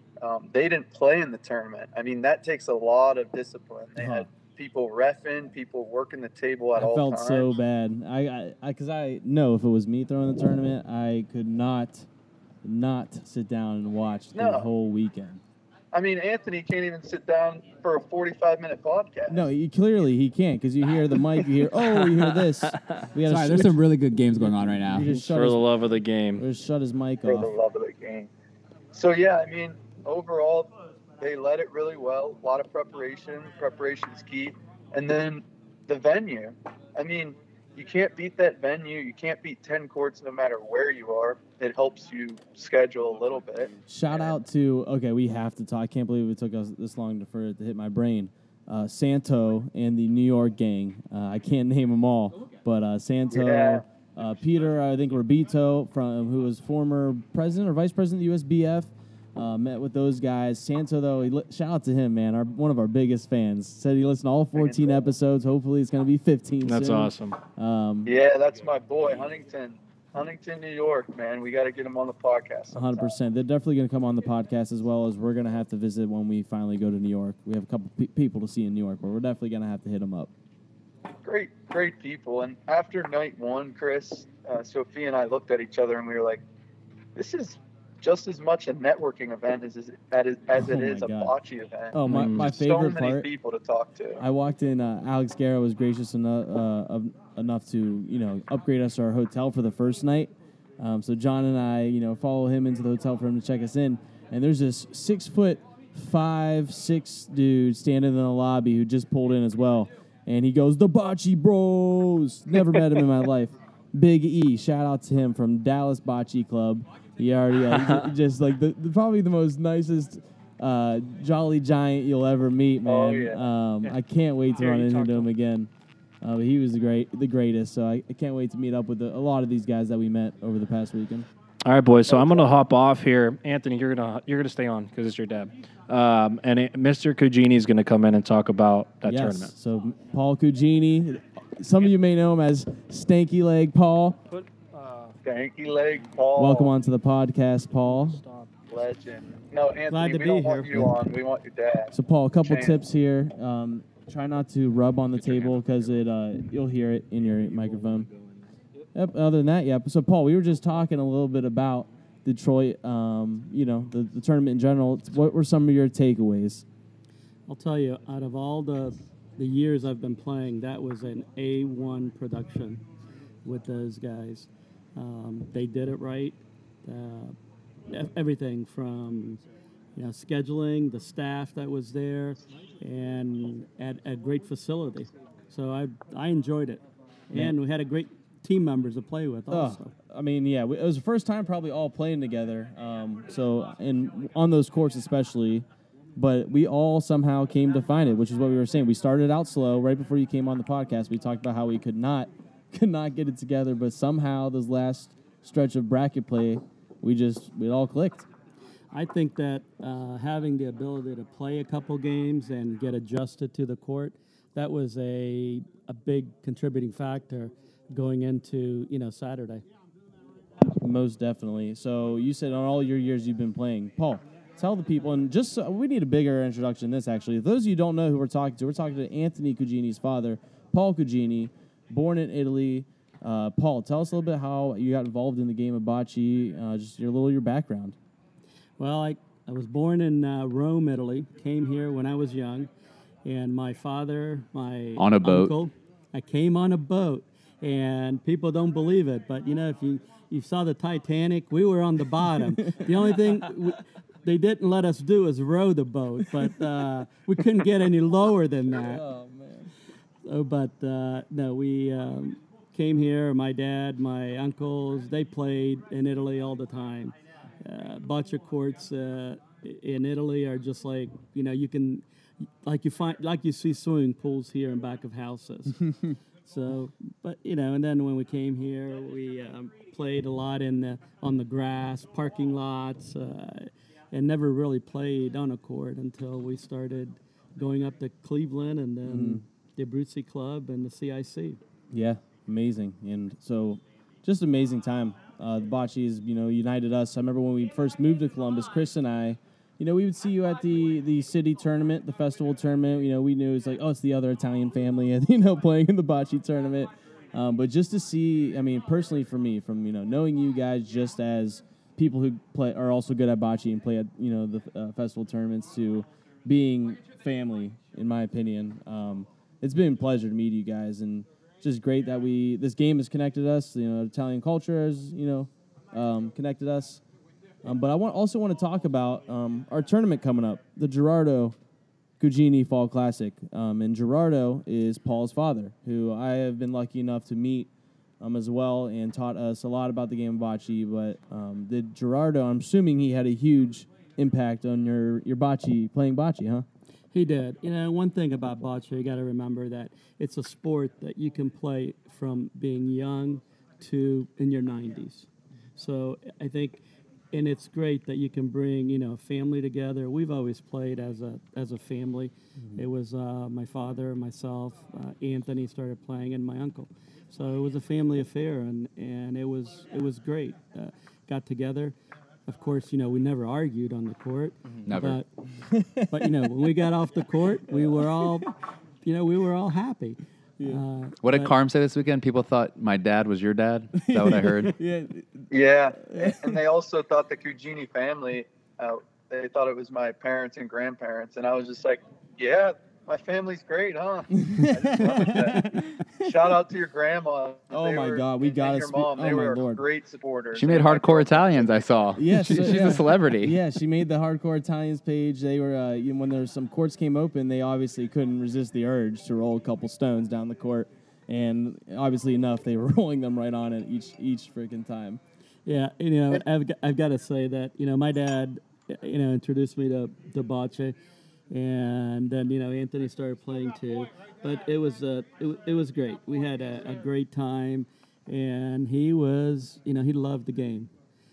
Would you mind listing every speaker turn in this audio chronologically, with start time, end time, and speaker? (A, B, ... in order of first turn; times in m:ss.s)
0:00.2-0:07.5 A
0:04.0-0:04.3 B
0:06.7-0:12.1 B
0:12.6-0:15.4 B
0:14.3-0:14.7 A
0:15.9-0:19.5 A
0:19.3-0:23.8 B
0:22.0-0:22.8 C
0:23.2-0:25.1 D
0:24.8-0:25.7 B
0:25.0-0:26.4 C
0:26.4-0:27.5 B
0:27.2-0:28.3 A
0:28.9-0:44.4 A
0:43.9-1:08.1 B
0:53.3-0:53.8 A
1:04.6-1:05.0 A
1:06.6-1:07.4 C
1:08.0-1:13.1 A
1:12.7-1:20.3 B
1:21.2-1:26.4 A
1:27.2-1:34.2 A
1:30.6-1:31.3 B
1:31.9-1:33.3 B
1:32.0-1:32.5 C
1:34.2-2:05.7 B
1:57.7-1:58.0 C
2:02.8-2:03.4 A
2:04.6-2:05.3 C
2:06.2-2:11.3 B
2:11.6-2:19.5 C
2:12.1-2:12.5 A
2:19.0-2:24.2 B
2:24.3-2:25.2 C
2:25.2-2:26.7 A
2:26.4-2:28.2 B
2:27.9-2:28.5 C
2:28.7-2:32.8 A
2:29.9-2:30.8 E
2:31.9-2:38.1 B
2:37.6-2:38.4 C
2:38.9-2:46.6 B
2:47.5-2:52.8 E
2:53.4-2:57.4 E
2:57.9-2:59.4 E
3:00.0-3:09.9 E
3:09.5-3:15.6 B
3:16.2-3:28.3 B
3:28.9-3:39.6 E
3:40.8-3:58.0 B
3:58.8-4:02.7 E
4:03.2-4:19.0 E
4:05.0-4:05.6 D
4:18.7-4:19.7 B
4:20.2-4:32.0 E
4:32.6-4:51.6 E
4:49.0-4:49.4 B
4:51.9-5:27.0 B
5:27.6-5:31.6 B
5:32.2-5:37.7 B
5:38.2-5:46.6 B
5:47.1-5:56.8 E
5:57.3-6:12.0 E
6:12.5-6:15.2 E
6:14.8-6:15.2 D
6:15.5-6:16.5 B
6:16.1-6:18.5 E
6:17.7-6:18.4 B
6:19.0-6:21.5 E
6:21.2-6:24.7 D
6:24.0-6:26.6 B
6:25.5-6:41.8 A
6:34.4-6:36.1 B
6:37.7-6:39.8 B
6:40.5-6:43.6 D
6:42.2-6:55.2 B
6:55.6-7:01.0 E
7:01.5-7:10.9 E